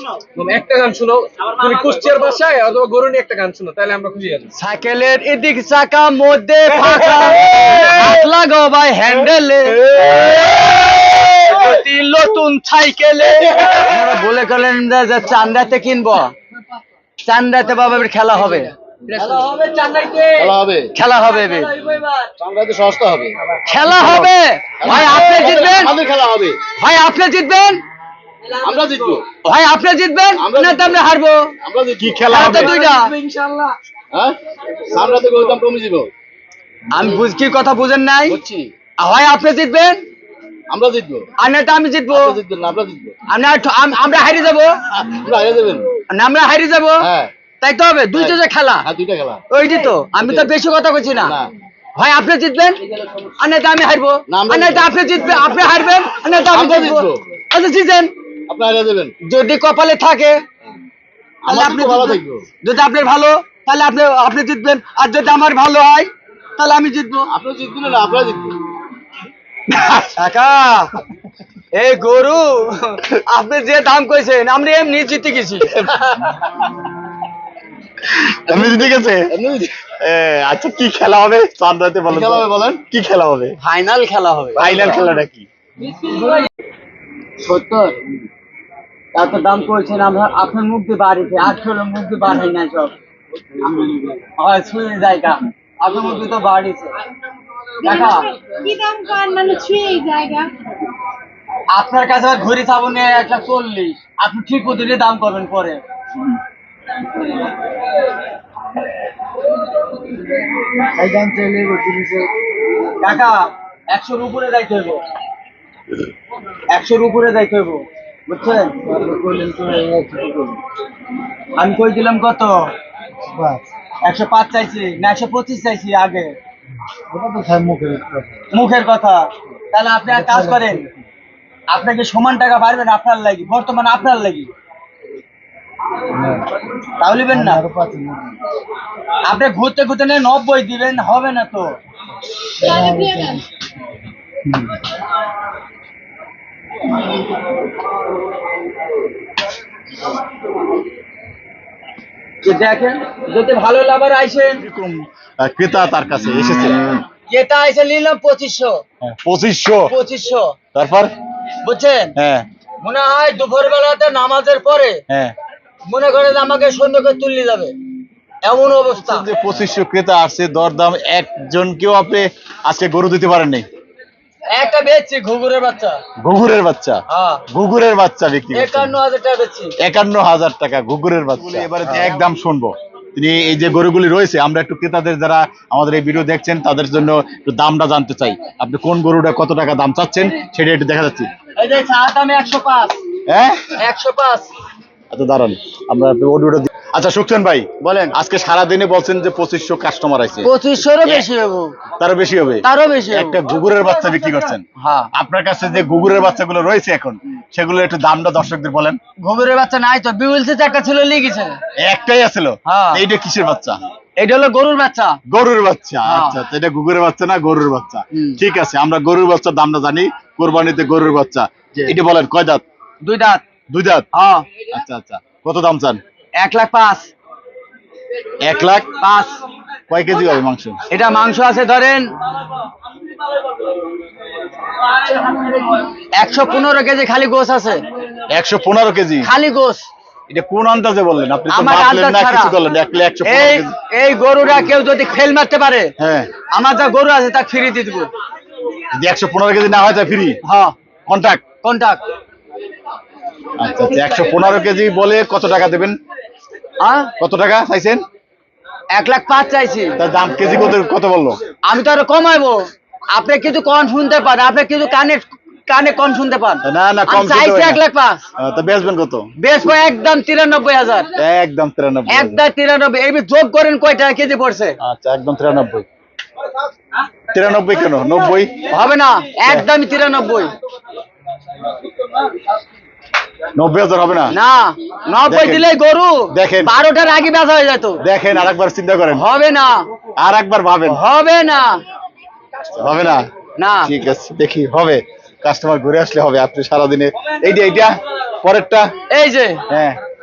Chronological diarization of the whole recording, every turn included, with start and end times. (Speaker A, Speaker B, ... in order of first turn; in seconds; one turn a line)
Speaker A: 0.3-4.5
Speaker B: 4.6-16.4
Speaker B: 17.2-18.7
Speaker A: 19.8-20.2
Speaker C: 20.3-20.9
Speaker B: 20.9-21.9
Speaker C: 22.4-23.4
Speaker B: 23.7-25.9
Speaker D: 23.9-24.3
Speaker C: 24.8-26.6
Speaker B: 26.8-27.8
Speaker C: 28.6-29.2
Speaker B: 29.4-31.5
Speaker C: 30.4-31.0
Speaker C: 31.6-32.4
Speaker D: 32.0-32.8
Speaker B: 32.3-33.1
Speaker A: 32.9-33.8
Speaker C: 34.9-36.1
Speaker B: 36.9-38.4
Speaker C: 38.3-38.7
Speaker B: 39.0-40.0
Speaker C: 40.7-41.3
Speaker B: 41.4-42.4
Speaker C: 42.1-43.1
Speaker B: 43.3-44.8
Speaker C: 45.0-45.9
Speaker B: 46.1-47.0
Speaker C: 47.0-47.3
Speaker B: 47.6-48.9
Speaker C: 48.1-49.4
Speaker B: 49.5-51.4
Speaker C: 50.2-50.5
Speaker C: 51.2-51.5
Speaker B: 52.0-52.8
Speaker B: 53.4-58.1
Speaker C: 54.3-54.9
Speaker C: 56.5-57.2
Speaker C: 58.5-59.1
Speaker B: 59.3-60.4
Speaker C: 61.5-62.5
Speaker B: 61.5-67.3
Speaker C: 67.3-68.6
Speaker D: 69.7-70.1
Speaker B: 70.1-70.9
Speaker B: 71.7-75.7
Speaker C: 75.8-76.3
Speaker D: 78.2-79.3
Speaker C: 78.5-79.7
Speaker D: 80.0-83.6
Speaker C: 82.1-82.8
Speaker B: 83.6-84.6
Speaker D: 84.6-85.5
Speaker C: 84.6-85.0
Speaker B: 86.0-86.3
Speaker C: 87.4-88.0
Speaker B: 89.1-92.9
Speaker C: 93.6-94.2
Speaker B: 94.4-96.9
Speaker B: 97.8-98.3
Speaker E: 97.8-100.5
Speaker B: 101.7-105.8
Speaker C: 111.0-112.2
Speaker B: 113.0-115.0
Speaker B: 116.7-118.8
Speaker C: 118.9-120.5
Speaker B: 121.6-122.7
Speaker B: 124.0-126.4
Speaker C: 127.2-128.1
Speaker B: 128.5-130.9
Speaker B: 131.7-134.5
Speaker B: 137.0-137.6
Speaker C: 137.7-138.1
Speaker B: 139.2-141.8
Speaker E: 142.7-143.4
Speaker B: 152.4-154.6
Speaker D: 154.6-156.8
Speaker B: 157.3-158.8
Speaker D: 159.0-159.9
Speaker B: 159.9-160.6
Speaker D: 160.7-161.1
Speaker B: 161.6-162.2
Speaker D: 162.2-162.5
Speaker B: 162.8-165.0
Speaker D: 165.1-165.3
Speaker B: 165.9-167.8
Speaker B: 168.4-169.3
Speaker D: 169.0-173.7
Speaker B: 174.5-176.0
Speaker D: 176.2-179.0
Speaker B: 177.1-177.4
Speaker B: 178.5-179.8
Speaker D: 179.8-191.3
Speaker B: 191.6-193.0
Speaker D: 193.3-193.7
Speaker B: 193.8-194.5
Speaker D: 195.1-200.5
Speaker B: 197.8-198.1
Speaker B: 200.4-201.8
Speaker D: 202.0-209.0
Speaker B: 202.6-203.4
Speaker B: 204.8-205.1
Speaker B: 209.2-211.6
Speaker D: 211.8-213.8
Speaker B: 212.7-213.0
Speaker B: 214.2-215.2
Speaker D: 215.3-222.6
Speaker B: 216.1-216.4
Speaker B: 218.1-218.4
Speaker B: 223.0-223.4
Speaker D: 223.7-224.1
Speaker B: 224.1-224.4
Speaker D: 224.7-226.0
Speaker B: 226.4-227.1
Speaker D: 228.4-228.9
Speaker B: 229.0-229.4
Speaker D: 229.9-230.8
Speaker B: 230.9-232.1
Speaker B: 236.1-237.8
Speaker D: 238.3-239.3
Speaker B: 239.2-239.9
Speaker D: 240.3-243.8
Speaker B: 241.5-242.6
Speaker B: 243.2-245.9
Speaker D: 246.0-246.3
Speaker B: 246.5-248.1
Speaker D: 248.9-250.4
Speaker B: 250.4-250.7
Speaker D: 251.1-251.4
Speaker B: 251.6-252.0
Speaker D: 253.6-256.0
Speaker B: 256.8-257.1
Speaker D: 257.2-258.0
Speaker B: 258.9-260.0
Speaker D: 260.0-261.4
Speaker B: 261.7-268.2
Speaker D: 266.6-267.8
Speaker D: 268.4-269.3
Speaker B: 269.4-271.1
Speaker D: 271.2-272.4
Speaker B: 272.1-274.8
Speaker D: 274.8-275.9
Speaker D: 277.3-278.7
Speaker B: 278.7-280.5
Speaker D: 283.6-284.4
Speaker B: 284.3-288.0
Speaker D: 285.3-285.7
Speaker D: 286.3-286.7
Speaker D: 288.0-289.2
Speaker B: 289.1-289.9
Speaker D: 290.2-291.0
Speaker B: 290.9-291.8
Speaker D: 292.7-293.3
Speaker B: 293.6-293.9
Speaker D: 293.8-298.9
Speaker B: 299.1-299.6
Speaker D: 299.7-300.0